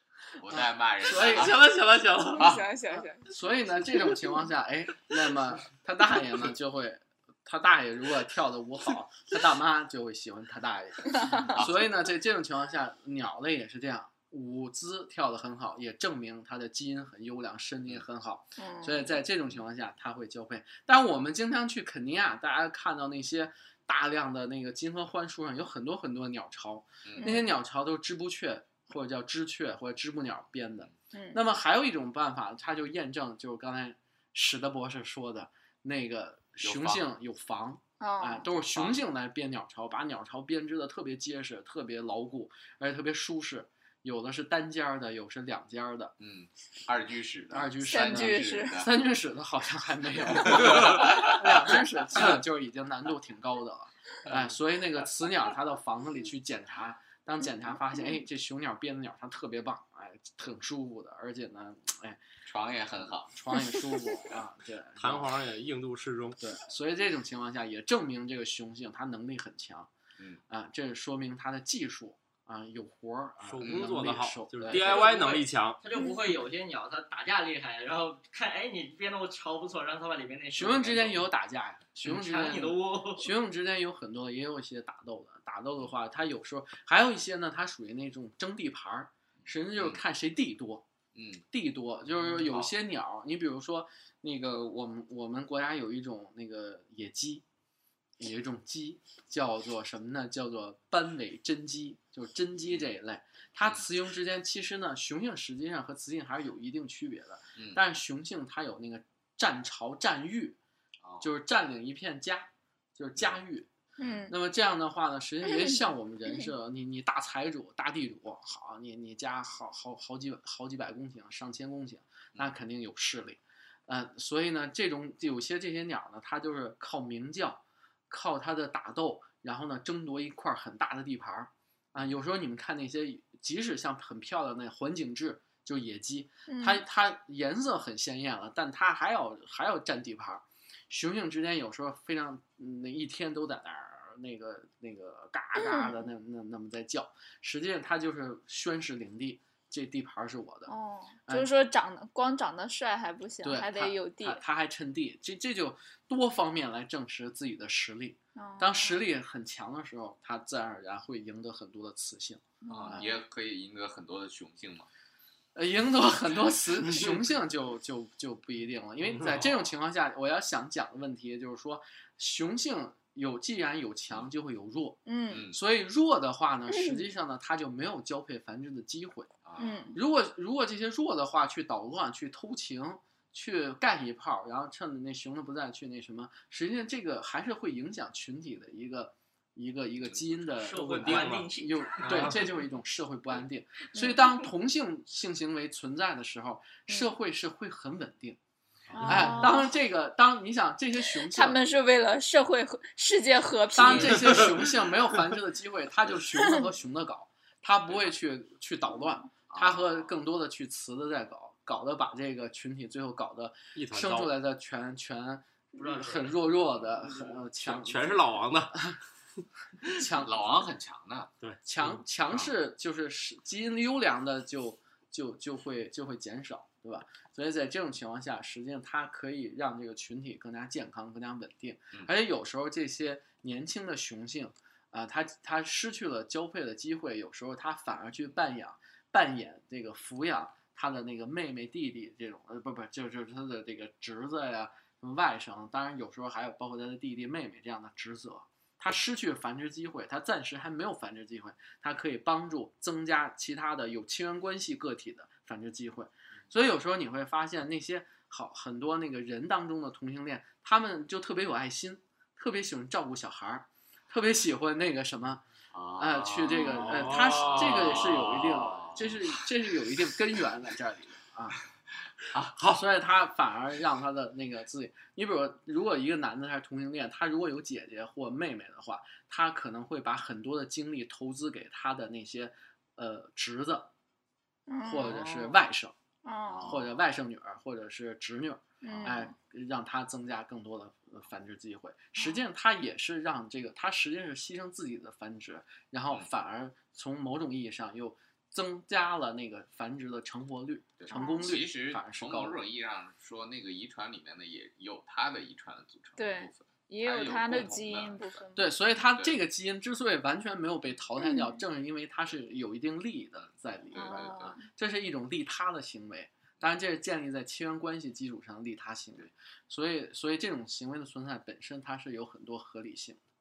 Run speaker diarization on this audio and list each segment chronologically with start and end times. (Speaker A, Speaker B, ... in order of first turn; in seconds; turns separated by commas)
Speaker A: 0.4-1.6, Speaker B: 0.5-1.6, Speaker C: 1.1-2.6, Speaker D: 2.3-3.3, Speaker A: 2.4-2.6, Speaker B: 2.9-46.1, Speaker A: 11.4-11.9, Speaker D: 18.6-19.1, Speaker A: 27.0-27.3, Speaker D: 27.2-27.5, Speaker D: 31.1-31.4, Speaker A: 36.6-37.0, Speaker D: 38.0-38.5, Speaker A: 38.7-39.0, Speaker A: 46.2-48.9, Speaker B: 47.5-62.2, Speaker D: 47.8-48.8, Speaker A: 50.2-51.6, Speaker A: 62.5-63.4, Speaker B: 63.3-65.3, Speaker C: 65.0-66.4, Speaker B: 66.4-69.9, Speaker B: 70.5-75.2, Speaker C: 73.5-75.8, Speaker A: 73.6-74.1, Speaker E: 74.9-81.3, Speaker B: 80.5-90.9, Speaker E: 82.0-83.3, Speaker A: 89.7-90.0, Speaker A: 91.2-91.4, Speaker B: 91.5-97.4, Speaker A: 92.2-92.7, Speaker B: 98.2-110.6, Speaker B: 111.2-113.7, Speaker D: 114.0-114.3, Speaker B: 114.3-150.7, Speaker D: 136.5-136.8, Speaker D: 145.6-145.9, Speaker D: 150.7-154.4, Speaker B: 153.4-163.2, Speaker D: 158.4-159.0, Speaker D: 162.6-163.1, Speaker A: 162.7-164.9, Speaker B: 165.6-179.4, Speaker C: 169.1-169.5, Speaker D: 175.1-175.5, Speaker A: 175.3-175.6, Speaker D: 176.7-177.0, Speaker A: 179.4-179.7, Speaker D: 179.6-180.0, Speaker B: 179.9-198.4, Speaker E: 190.6-192.4, Speaker C: 190.7-191.5, Speaker C: 192.0-192.4, Speaker D: 193.9-194.4, Speaker D: 198.9-199.7, Speaker C: 199.0-199.4, Speaker B: 199.1-201.6, Speaker D: 201.2-204.5, Speaker B: 203.7-218.4, Speaker A: 209.5-210.0, Speaker C: 213.8-214.3, Speaker E: 215.8-217.4, Speaker C: 217.6-218.8, Speaker B: 219.9-220.4, Speaker A: 220.2-221.3, Speaker C: 221.4-222.0, Speaker B: 221.7-265.4, Speaker A: 265.7-269.3, Speaker B: 266.0-271.6, Speaker D: 266.5-266.9, Speaker C: 266.7-268.1, Speaker B: 272.6-283.9, Speaker D: 284.7-285.2, Speaker B: 284.8-286.0, Speaker D: 286.2-286.8, Speaker A: 286.5-286.9, Speaker B: 286.6-302.6, Speaker D: 288.8-289.3, Speaker A: 288.9-289.2, Speaker A: 301.0-308.4, Speaker D: 301.1-301.5, Speaker D: 306.2-308.7, Speaker B: 308.6-323.2, Speaker D: 311.2-311.6, Speaker A: 313.4-314.6, Speaker D: 313.9-314.7